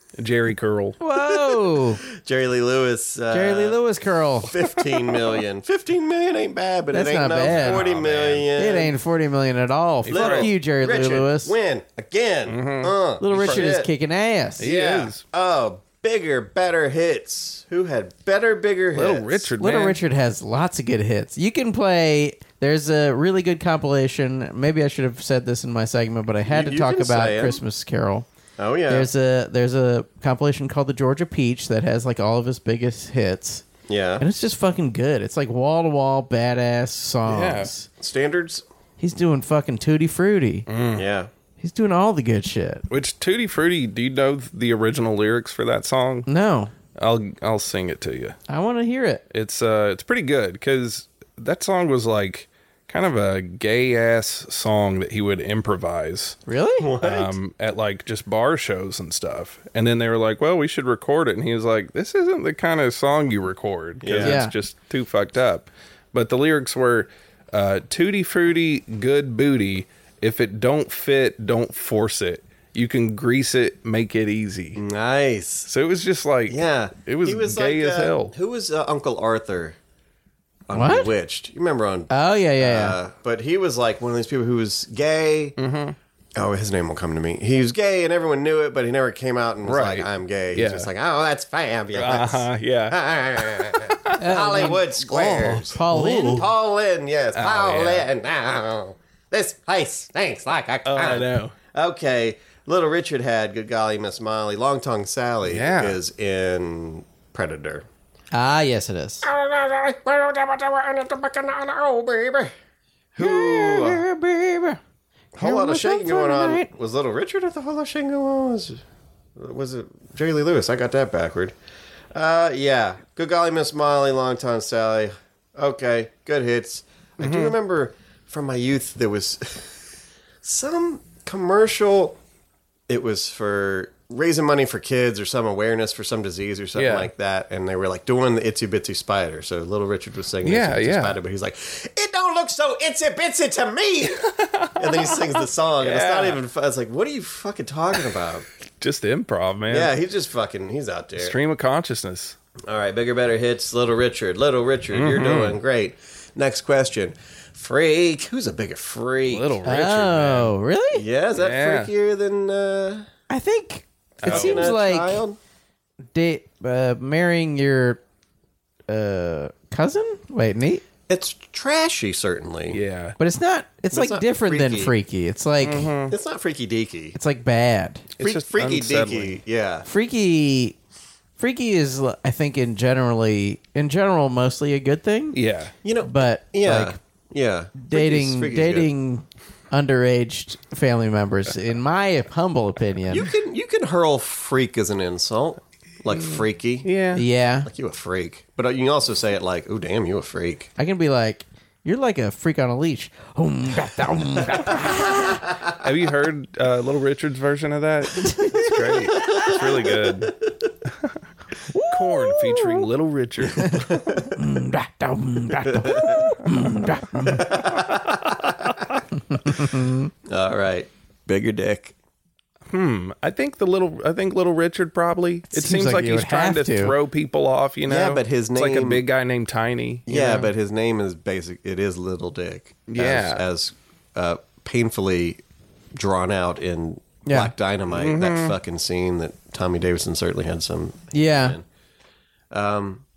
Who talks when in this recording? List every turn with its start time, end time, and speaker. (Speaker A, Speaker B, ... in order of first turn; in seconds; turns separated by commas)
Speaker A: 0.2-1.0, Speaker B: 1.0-2.0, Speaker C: 1.2-3.8, Speaker B: 3.3-4.5, Speaker C: 4.4-8.9, Speaker B: 6.9-7.8, Speaker A: 7.4-8.5, Speaker B: 8.5-11.5, Speaker A: 10.1-10.5, Speaker C: 10.1-13.9, Speaker A: 12.5-13.7, Speaker B: 13.2-14.7, Speaker A: 14.6-15.2, Speaker C: 14.6-19.5, Speaker A: 18.9-20.0, Speaker B: 19.6-28.3, Speaker C: 26.5-27.6, Speaker C: 28.6-29.1, Speaker B: 28.9-33.6, Speaker C: 33.9-34.3, Speaker B: 34.2-37.9, Speaker A: 37.3-37.7, Speaker C: 38.0-38.6, Speaker B: 39.0-40.7, Speaker A: 40.7-41.1, Speaker C: 40.9-41.3, Speaker B: 41.6-42.8, Speaker A: 42.9-46.3, Speaker B: 46.3-46.7, Speaker A: 47.0-48.4, Speaker B: 48.5-49.2, Speaker A: 49.3-56.4, Speaker B: 56.5-56.9, Speaker C: 56.8-57.4, Speaker A: 57.0-74.8, Speaker C: 64.0-64.4, Speaker B: 64.2-64.5, Speaker C: 74.8-75.7, Speaker A: 75.7-78.3, Speaker C: 76.5-79.8, Speaker C: 80.7-85.6, Speaker B: 80.7-81.1, Speaker B: 82.1-83.0, Speaker A: 85.6-86.0, Speaker C: 86.4-107.9, Speaker A: 89.7-90.9, Speaker A: 92.0-94.1, Speaker B: 94.2-96.5, Speaker A: 95.1-96.4, Speaker A: 97.3-98.0, Speaker A: 100.8-101.5, Speaker A: 105.5-106.0, Speaker B: 108.3-109.3, Speaker C: 109.2-112.5, Speaker C: 113.2-114.0, Speaker B: 113.2-114.8, Speaker C: 115.3-118.8, Speaker B: 115.4-116.7, Speaker C: 119.4-121.5, Speaker C: 122.1-129.9, Speaker A: 127.2-127.5, Speaker C: 130.4-132.2, Speaker C: 132.9-148.5, Speaker A: 136.8-137.1, Speaker A: 140.4-141.2, Speaker A: 144.4-145.2, Speaker A: 145.8-146.4, Speaker A: 148.8-149.9, Speaker C: 149.7-151.4, Speaker A: 151.2-152.4, Speaker C: 152.7-159.6, Speaker A: 154.9-155.6, Speaker A: 159.3-160.5, Speaker B: 159.7-161.1, Speaker C: 160.9-163.1, Speaker A: 161.4-161.9, Speaker B: 163.3-165.2, Speaker A: 164.2-164.7, Speaker C: 164.2-165.4, Speaker B: 166.1-168.0, Speaker B: 168.9-170.8, Speaker C: 171.1-172.8, Speaker A: 172.7-173.2, Speaker B: 173.2-175.9, Speaker C: 173.9-174.9, Speaker A: 175.6-176.2, Speaker C: 176.1-177.2, Speaker B: 177.1-178.1, Speaker A: 178.2-179.4, Speaker C: 178.2-179.9, Speaker B: 179.9-180.8, Speaker B: 181.4-185.4, Speaker A: 185.3-185.7, Speaker C: 185.8-188.9, Speaker B: 186.0-187.0, Speaker B: 187.8-193.3, Speaker C: 193.1-196.9, Speaker A: 196.2-197.2, Speaker B: 197.2-197.7, Speaker C: 197.7-200.7, Speaker B: 200.8-205.4, Speaker A: 204.5-210.4, Speaker B: 208.2-209.4, Speaker C: 209.2-209.6, Speaker B: 211.7-212.9, Speaker A: 211.9-214.3, Speaker C: 213.9-214.2, Speaker B: 214.4-217.5, Speaker C: 215.7-216.3, Speaker C: 217.3-218.4, Speaker B: 219.3-220.1, Speaker C: 220.3-221.9, Speaker A: 222.7-230.5, Speaker B: 225.5-227.0, Speaker C: 227.8-229.1, Speaker C: 230.1-235.4, Speaker A: 232.9-233.4, Speaker C: 235.9-241.7, Speaker B: 237.2-237.5, Speaker A: 237.9-238.6, Speaker B: 241.1-241.6, Speaker C: 242.5-243.1